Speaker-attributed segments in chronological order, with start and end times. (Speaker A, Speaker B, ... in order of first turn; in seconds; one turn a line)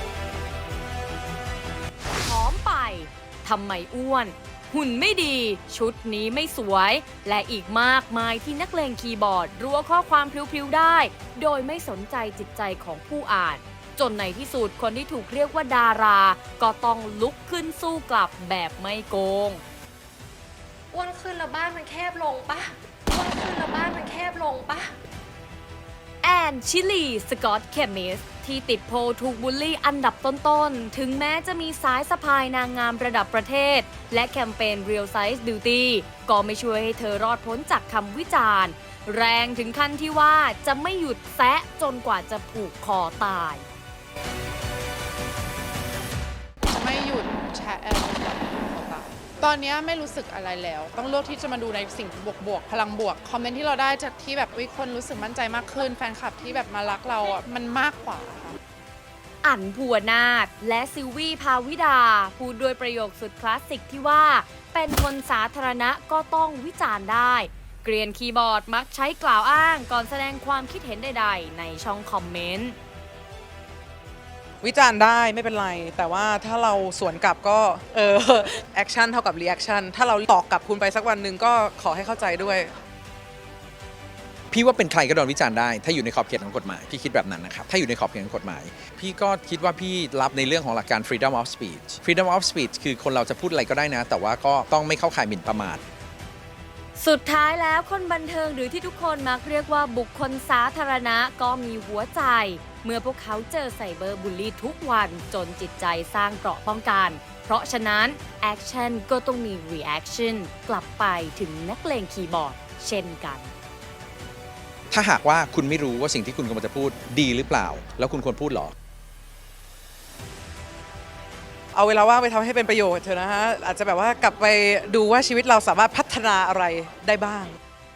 Speaker A: 2.2-19.6
Speaker B: 20.9-25.0
Speaker A: 26.2-43.7
Speaker C: 46.7-58.6
Speaker A: 59.4-72.8
Speaker D: 74.6-82.7
Speaker E: 84.5-95.8
Speaker A: 97.0-113.5
Speaker E: 114.9-118.7
Speaker D: 121.7-127.6